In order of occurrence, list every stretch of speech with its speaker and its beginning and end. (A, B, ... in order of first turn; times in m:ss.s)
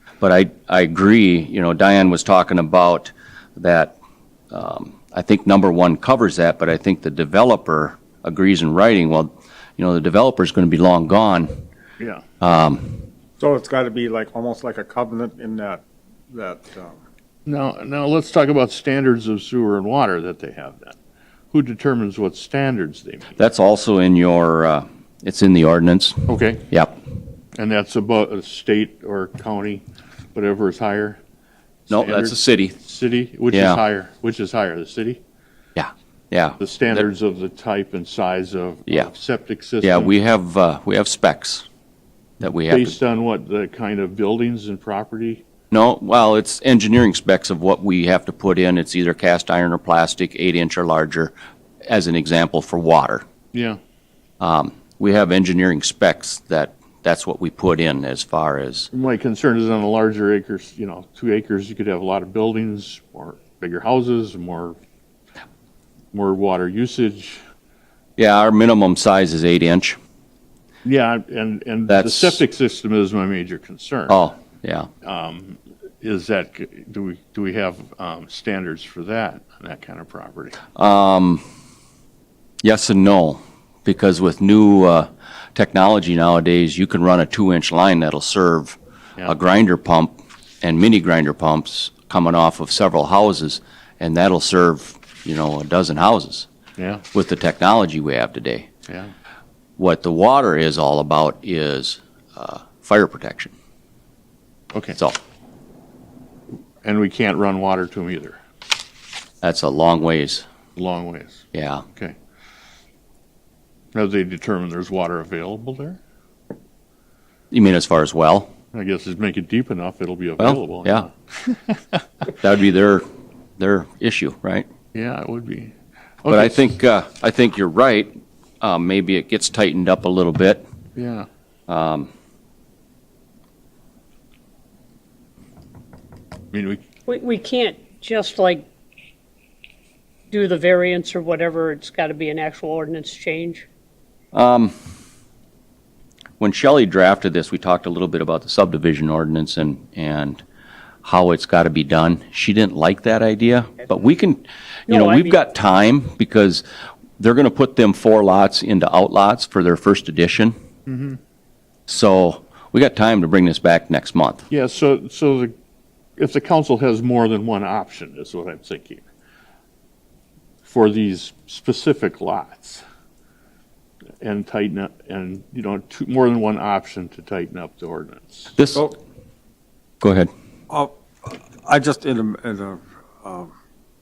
0:00.2-0:03.9 A
0:04.5-0:11.6 A
0:12.0-0:12.2 B
0:12.4-0:13.0 A
0:13.4-0:17.0 C
0:17.4-0:21.0 B
0:21.5-0:23.4 B
0:23.4-0:26.9 A
0:26.3-0:26.7 B
0:27.6-0:29.8 B
0:30.3-0:31.2 B
0:31.9-0:35.2 B
0:31.9-0:32.8 A
0:33.5-0:33.8 A
0:35.8-0:37.1 A
0:36.6-0:40.1 B
0:39.8-0:41.6 A
0:42.4-0:43.0 A
0:42.4-0:45.4 B
0:45.7-0:51.3 A
0:51.9-0:53.2 A
0:53.5-0:53.8 B
0:54.4-0:58.9 A
0:58.9-1:04.8 B
1:06.1-1:07.4 B
1:08.2-1:10.0 A
1:10.8-1:14.2 B
1:11.9-1:12.4 A
1:14.1-1:14.9 A
1:15.0-1:20.6 B
1:20.8-1:21.4 A
1:22.6-1:36.5 A
1:36.8-1:37.0 B
1:37.1-1:38.7 A
1:39.8-1:43.5 A
1:44.7-1:45.0 B
1:46.8-1:48.4 B
1:49.4-1:50.4 A
1:50.8-1:52.2 B
1:51.5-1:51.8 A
1:53.9-1:56.0 B
1:57.5-1:58.5 A
1:58.7-2:02.0 B
2:00.4-2:01.1 A
2:02.3-2:03.0 A
2:03.6-2:04.7 A
2:04.9-2:06.8 B
2:06.3-2:10.6 A
2:11.0-2:11.3 B
2:11.7-2:12.1 A
2:16.5-2:16.8 B
2:17.1-2:18.6 D
2:20.3-2:23.6 D
2:24.3-2:24.7 A
2:26.4-2:30.4 A
2:31.0-2:36.6 A
2:34.9-2:35.3 D
2:37.2-2:40.6 A
2:40.8-2:41.2 B
2:41.9-2:44.4 A
2:44.5-2:45.5 B
2:46.2-2:49.0 B
2:50.6-2:52.8 B
2:54.2-2:58.5 B
2:58.6-2:58.9 A
3:00.0-3:00.3 A
3:00.7-3:03.5 C